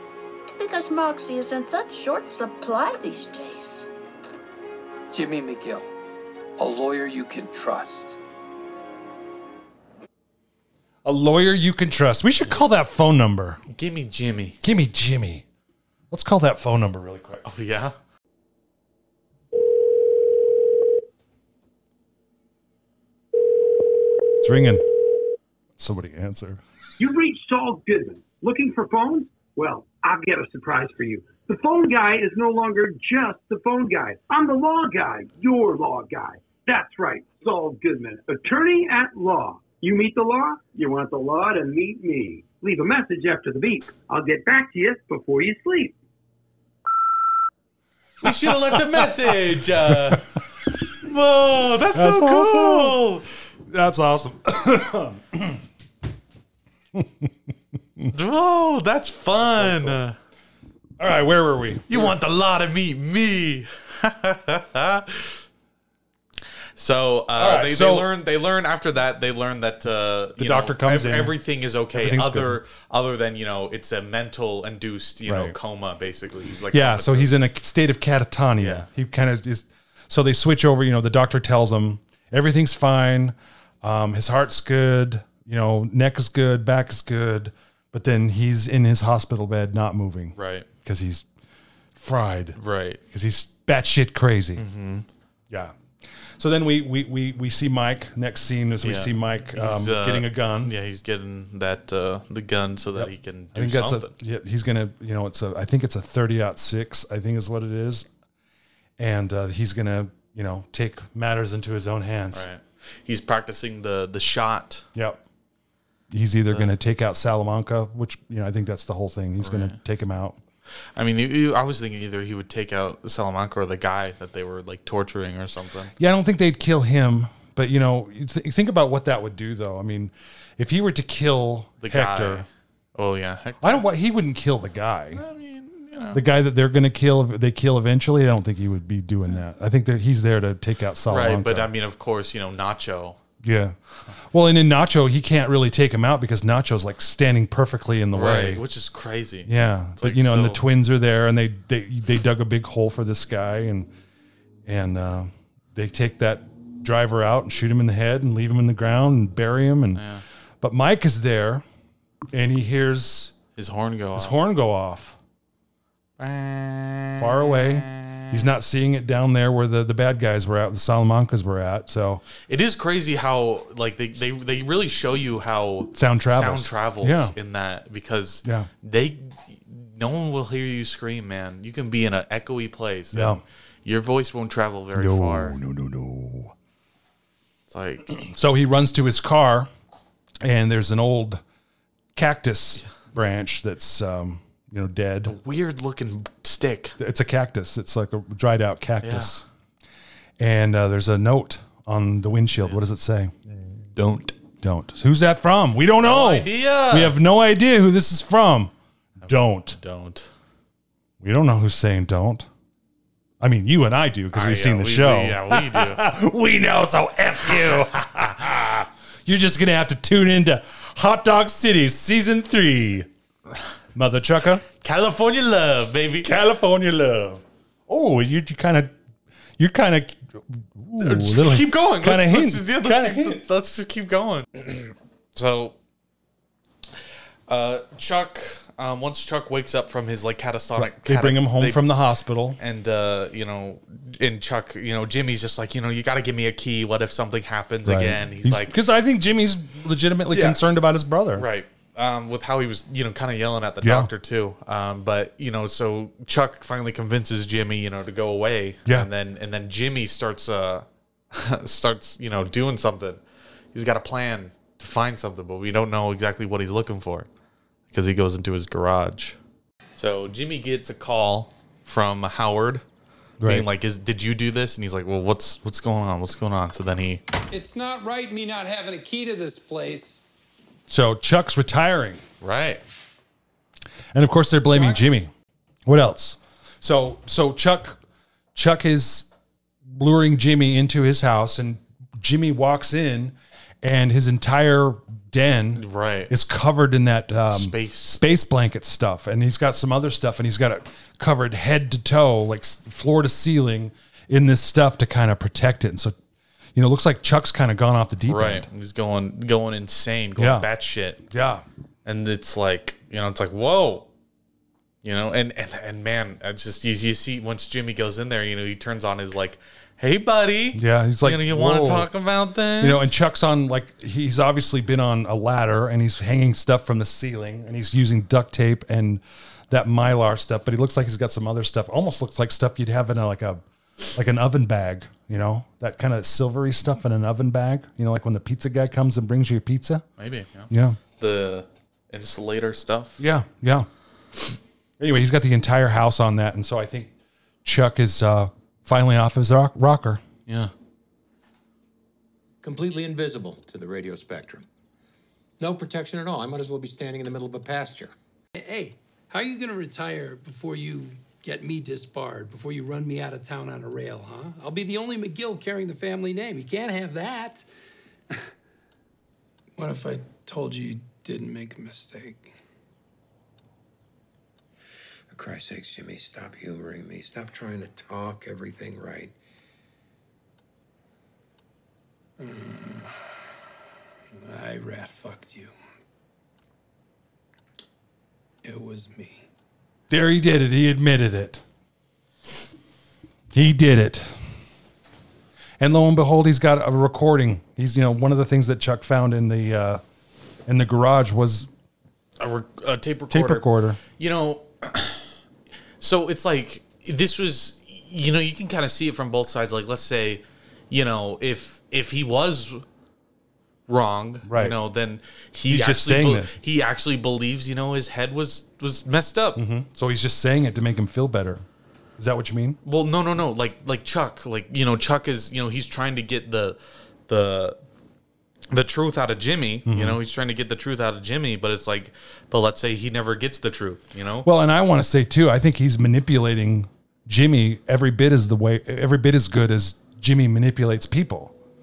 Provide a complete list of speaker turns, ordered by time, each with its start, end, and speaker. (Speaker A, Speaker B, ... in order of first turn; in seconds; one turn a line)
Speaker A: 0.6-3.9
Speaker B: 5.1-5.9
Speaker B: 6.6-8.2
Speaker C: 11.0-13.6
Speaker D: 13.7-14.6
Speaker C: 14.6-15.4
Speaker C: 16.1-17.4
Speaker D: 17.4-17.9
Speaker C: 24.4-24.9
Speaker C: 25.8-26.6
Speaker E: 27.0-45.9
Speaker D: 48.2-50.3
Speaker C: 48.2-50.4
Speaker D: 51.0-53.3
Speaker C: 51.9-53.0
Speaker C: 53.7-55.6
Speaker C: 56.9-57.3
Speaker D: 58.1-60.1
Speaker C: 59.3-60.0
Speaker C: 61.0-62.1
Speaker D: 61.9-65.4
Speaker D: 66.8-77.3
Speaker C: 67.3-68.1
Speaker C: 70.4-71.3
Speaker C: 71.9-72.6
Speaker C: 75.2-75.5
Speaker C: 76.7-91.2
Speaker D: 78.6-78.9
Speaker D: 90.3-90.7
Speaker C: 91.9-92.6
Speaker D: 92.5-93.0
Speaker C: 93.1-94.6
Speaker D: 94.6-95.1
Speaker C: 95.5-95.7
Speaker C: 96.3-100.7
Speaker D: 98.8-104.1
Speaker C: 102.9-108.1
Speaker C: 109.0-112.5
Speaker D: 112.3-114.8
Speaker C: 114.9-115.2
Speaker C: 116.1-120.4
Speaker D: 119.4-119.8
Speaker D: 120.9-125.9
Speaker C: 126.0-132.5
Speaker D: 131.8-133.8
Speaker C: 133.6-135.2
Speaker D: 135.1-136.2
Speaker C: 136.1-141.7
Speaker D: 141.1-143.2
Speaker C: 143.4-148.6
Speaker D: 148.1-150.6
Speaker C: 149.4-153.9
Speaker C: 154.6-160.0
Speaker D: 159.9-160.2
Speaker C: 160.6-161.6
Speaker C: 162.3-163.3
Speaker D: 163.6-164.4
Speaker C: 164.1-165.2
Speaker D: 166.2-168.3
Speaker C: 167.2-172.2
Speaker D: 172.4-185.6
Speaker C: 175.9-177.3
Speaker C: 178.4-178.7
Speaker C: 183.1-183.4
Speaker C: 184.9-186.5
Speaker D: 187.7-188.1
Speaker C: 188.1-189.7
Speaker C: 190.4-191.4
Speaker C: 192.2-195.3
Speaker D: 195.2-197.0
Speaker C: 197.0-199.4
Speaker D: 199.0-199.4
Speaker C: 200.4-203.3
Speaker D: 203.8-204.3
Speaker C: 204.6-208.7
Speaker D: 206.0-207.1
Speaker D: 209.2-210.3
Speaker C: 209.3-209.8
Speaker C: 211.2-212.5
Speaker C: 213.4-223.1
Speaker D: 214.3-216.0
Speaker C: 223.9-224.6
Speaker D: 224.8-226.3
Speaker C: 226.2-228.9
Speaker C: 229.6-233.4
Speaker D: 231.0-235.7
Speaker D: 237.5-241.9
Speaker C: 240.7-242.6
Speaker D: 242.6-248.7
Speaker C: 247.8-251.4
Speaker D: 250.3-250.6
Speaker D: 251.3-263.2
Speaker C: 253.8-254.1
Speaker D: 263.7-267.3
Speaker D: 267.9-269.4
Speaker D: 269.9-272.8
Speaker C: 273.4-273.7
Speaker D: 273.4-277.2
Speaker B: 277.5-280.2
Speaker C: 280.9-282.2
Speaker D: 282.4-282.8
Speaker C: 284.1-285.3
Speaker B: 284.7-285.0
Speaker C: 285.9-288.0
Speaker C: 288.5-289.3
Speaker C: 289.9-306.1
Speaker D: 295.7-296.3
Speaker D: 297.5-298.1
Speaker C: 306.7-308.7
Speaker D: 308.3-311.2
Speaker C: 310.4-310.7
Speaker C: 311.3-311.6
Speaker D: 312.0-314.1
Speaker D: 315.0-323.1
Speaker C: 320.7-322.1
Speaker C: 322.8-333.6
Speaker C: 334.1-340.0
Speaker D: 340.2-343.2
Speaker C: 340.7-341.0
Speaker C: 343.2-343.9
Speaker C: 345.0-347.1
Speaker C: 347.6-350.2
Speaker D: 350.5-350.7
Speaker F: 352.6-354.6
Speaker F: 355.6-358.1
Speaker B: 358.5-367.6
Speaker B: 369.8-372.5
Speaker F: 375.3-379.3
Speaker B: 382.4-383.1
Speaker B: 384.3-385.7
Speaker B: 388.6-389.4
Speaker C: 390.1-391.6
Speaker C: 393.5-394.3
Speaker C: 395.8-400.0
Speaker C: 400.6-401.7
Speaker D: 402.4-405.3
Speaker C: 403.3-404.0
Speaker D: 406.0-412.8
Speaker D: 413.9-419.6
Speaker C: 414.4-414.8
Speaker C: 415.6-416.6
Speaker C: 419.5-421.6
Speaker C: 422.2-422.8
Speaker D: 422.8-427.8
Speaker D: 428.7-434.5
Speaker C: 429.9-430.2
Speaker C: 434.4-441.5